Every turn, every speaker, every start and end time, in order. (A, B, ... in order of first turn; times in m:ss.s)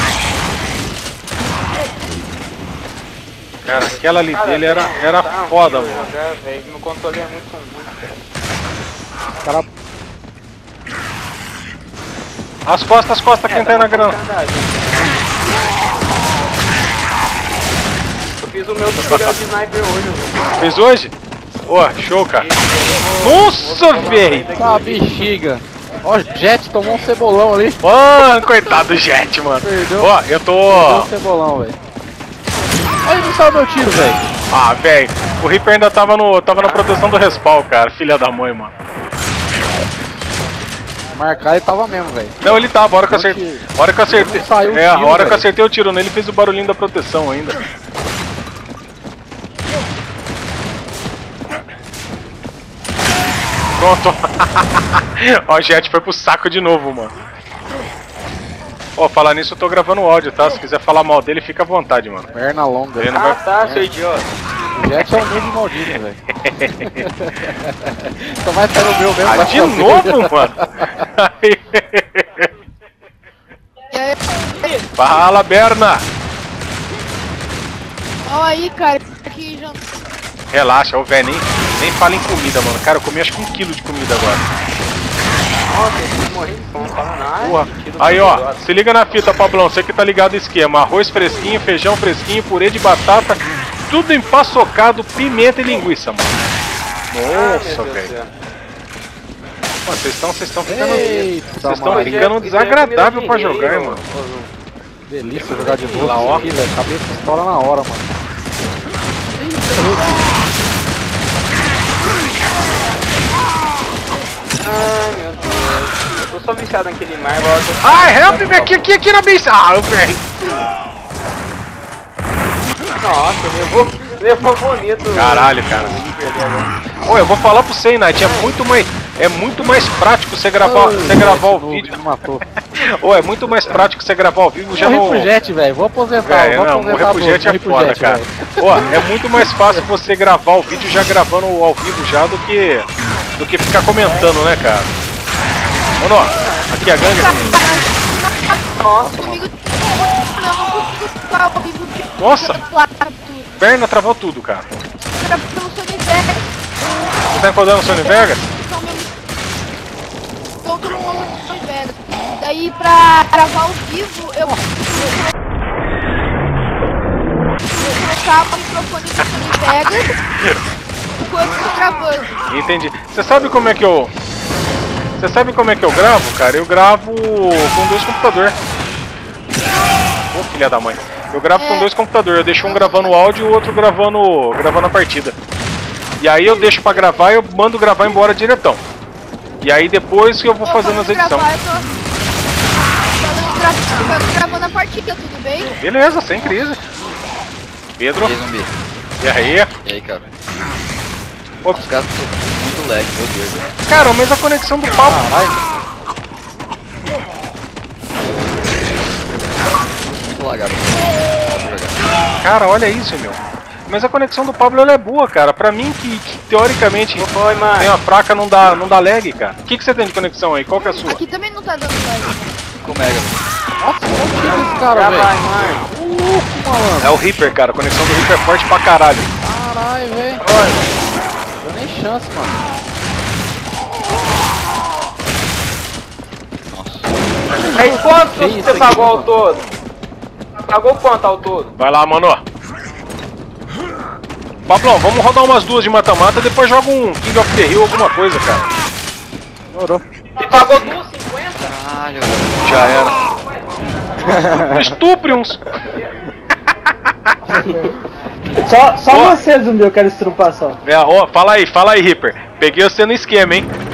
0:03.6-0:06.1 A
0:03.8-0:08.2 B
0:12.7-0:14.2 A
0:13.5-0:15.3 B
0:18.4-0:20.4 B
0:19.0-0:19.4 A
0:20.6-0:21.1 A
0:21.7-0:22.5 A
0:22.3-0:25.2 B
0:23.2-0:24.5 A
0:24.6-0:27.8 C
0:27.8-0:31.1 A
0:29.6-0:30.1 C
0:30.7-0:31.8 C
0:33.0-0:34.3 C
0:34.5-0:38.7 A
0:36.6-0:37.1 B
0:41.1-0:42.5 C
0:42.4-0:47.6 A
0:43.1-0:45.5 C
0:53.8-0:57.1 A
0:59.0-1:02.3 A
1:02.3-1:03.1 C
1:03.0-1:03.8 A
1:03.1-1:04.3 B
1:04.8-1:06.2 C
1:06.4-1:07.0 A
1:06.8-1:10.9 C
1:09.2-1:12.5 A
1:13.9-1:14.8 D
1:15.0-1:16.0 A
1:18.3-1:19.8 D
1:20.5-1:24.5 A
1:25.7-1:28.7 B
1:27.4-1:36.4 A
1:37.1-1:38.1 A
1:37.3-1:38.3 B
1:39.8-1:44.0 A
1:40.6-1:42.3 C
1:41.9-1:44.5 B
1:45.1-1:48.1 C
1:45.4-1:46.6 B
1:45.9-1:46.4 A
1:49.4-1:50.2 C
1:54.6-1:58.8 B
1:57.8-2:00.2 A
2:03.0-2:06.7 B
2:05.1-2:06.1 A
2:07.0-2:12.0 A
2:08.2-2:08.6 B
2:10.6-2:12.4 C
2:12.8-2:15.3 A
2:14.8-2:19.0 C
2:16.2-2:22.9 A
2:23.4-2:24.9 A
2:24.0-2:24.4 B
2:26.0-2:27.7 A
2:26.3-2:26.7 B
2:27.0-2:33.5 D
2:28.8-2:29.3 B
2:32.2-2:32.6 A
2:33.6-2:34.7 A
2:35.2-2:36.5 D
2:37.3-2:38.5 A
2:37.9-2:39.1 D
2:40.6-2:45.3 D
2:47.8-2:50.1 D
2:49.2-2:49.5 A
2:51.2-2:52.3 D
2:52.5-2:54.1 A
2:55.2-2:58.6 A
3:00.3-3:05.4 A
3:01.6-3:01.8 D
3:02.6-3:03.1 D
3:06.2-3:08.8 A
3:09.6-3:11.5 A
3:10.6-3:11.9 D
3:13.1-3:15.7 D
3:15.8-3:16.8 A
3:18.0-3:18.4 A
3:18.2-3:18.7 E
3:19.2-3:19.7 A
3:19.8-3:20.2 E
3:21.7-3:23.7 E
3:23.9-3:25.2 A
3:25.0-3:25.6 C
3:30.0-3:32.0 E
3:32.4-3:41.2 A
3:37.2-3:37.9 B
3:40.8-3:42.4 D
3:42.8-3:43.3 E
3:43.8-3:45.3 C
3:44.4-3:45.9 B
3:45.9-3:47.1 C
3:47.0-3:49.3 A
3:49.4-3:50.4 C
3:50.4-3:50.8 B
3:51.6-3:52.6 C
3:56.7-3:57.2 E
3:57.7-3:59.3 C
3:57.7-3:59.7 B
4:00.6-4:01.7 B
4:01.8-4:02.4 A
4:04.7-4:08.7 A
4:09.7-4:10.0 C
4:10.4-4:11.1 B
4:11.6-4:13.2 E
4:12.6-4:13.2 A
4:14.6-4:15.6 A
4:16.9-4:17.6 A
4:17.5-4:17.9 F
4:18.6-4:20.8 F
4:19.1-4:19.4 A
4:20.8-4:23.7 A